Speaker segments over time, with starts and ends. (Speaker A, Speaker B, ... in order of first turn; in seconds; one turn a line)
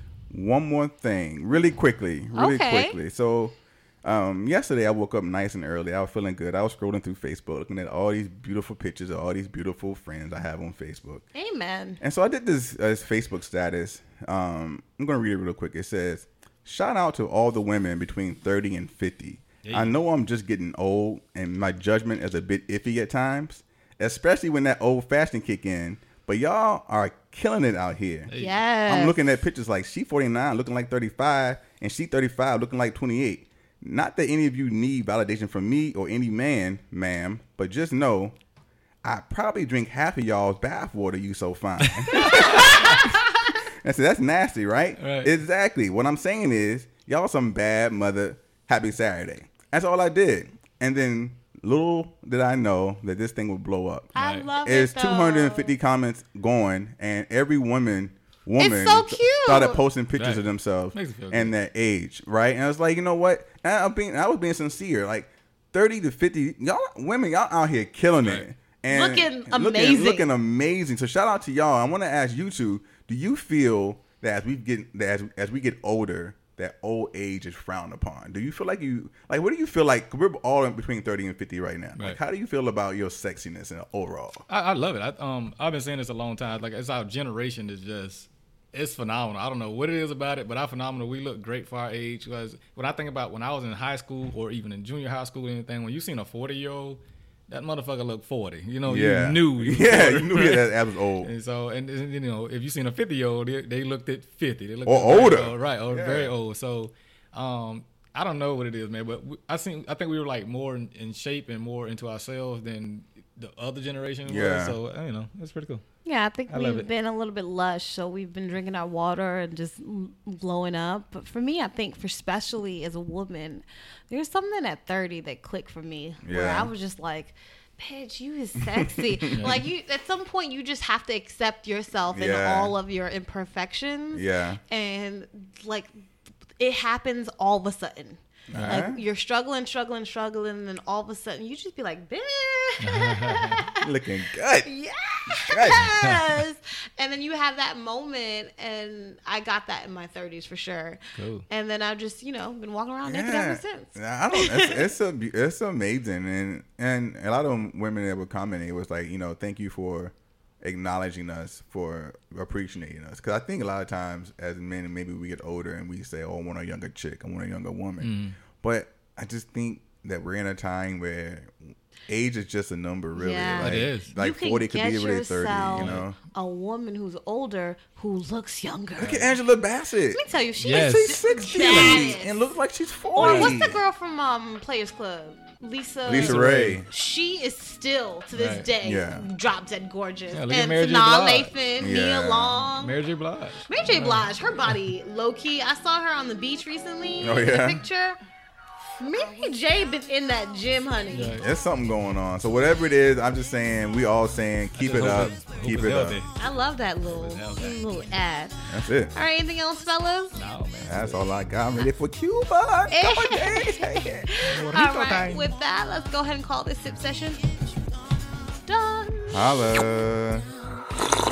Speaker A: 0.3-11.2
Speaker B: 2.4-3.0
Speaker B: 11.3-12.0
Speaker A: 12.0-28.3
Speaker C: 19.6-19.9
Speaker C: 28.3-28.5
Speaker B: 28.4-29.2
Speaker A: 28.9-38.4
Speaker A: 39.0-43.2
Speaker C: 41.9-43.0
Speaker A: 43.8-54.1
Speaker C: 45.0-45.3
Speaker B: 54.1-55.7
Speaker C: 54.2-54.5
Speaker A: 54.6-84.5
Speaker B: 58.6-59.8
Speaker C: 60.2-61.5
Speaker B: 68.9-70.3
Speaker C: 84.5-115.8
Speaker A: 98.8-101.3
Speaker A: 104.8-106.3
Speaker A: 114.3-114.8
Speaker B: 116.0-135.9
Speaker C: 116.5-116.9
Speaker A: 126.2-126.7
Speaker A: 128.8-129.3
Speaker C: 129.3-129.7
Speaker A: 132.1-132.8
Speaker A: 134.1-134.6
Speaker B: 136.6-143.8
Speaker A: 138.5-139.0
Speaker C: 138.6-138.8
Speaker C: 142.8-143.7
Speaker A: 143.8-144.7
Speaker B: 144.6-154.9
Speaker A: 145.4-145.9
Speaker C: 145.9-146.2
Speaker C: 151.2-151.5
Speaker A: 153.1-176.2
Speaker C: 168.0-168.4
Speaker B: 173.2-179.3
Speaker C: 173.6-174.1
Speaker C: 175.8-176.0
Speaker A: 179.0-180.2
Speaker B: 180.1-182.6
Speaker C: 180.6-182.1
Speaker A: 180.8-183.8
Speaker B: 183.2-193.0
Speaker C: 183.2-183.5
Speaker A: 186.1-186.9
Speaker C: 186.1-186.8
Speaker C: 188.3-188.7
Speaker A: 188.8-189.3
Speaker C: 190.3-191.5
Speaker A: 191.8-192.6
Speaker C: 192.8-194.2
Speaker B: 193.7-198.2
Speaker A: 197.2-197.8
Speaker B: 199.0-201.4
Speaker C: 201.1-201.4
Speaker A: 201.4-206.2
Speaker C: 204.8-206.3
Speaker B: 206.4-210.4
Speaker C: 207.1-207.8
Speaker A: 208.7-209.1
Speaker C: 210.3-211.2
Speaker A: 210.8-214.3
Speaker B: 212.9-217.5
Speaker C: 214.4-215.5
Speaker B: 218.6-219.8
Speaker A: 219.3-220.5
Speaker B: 220.6-221.0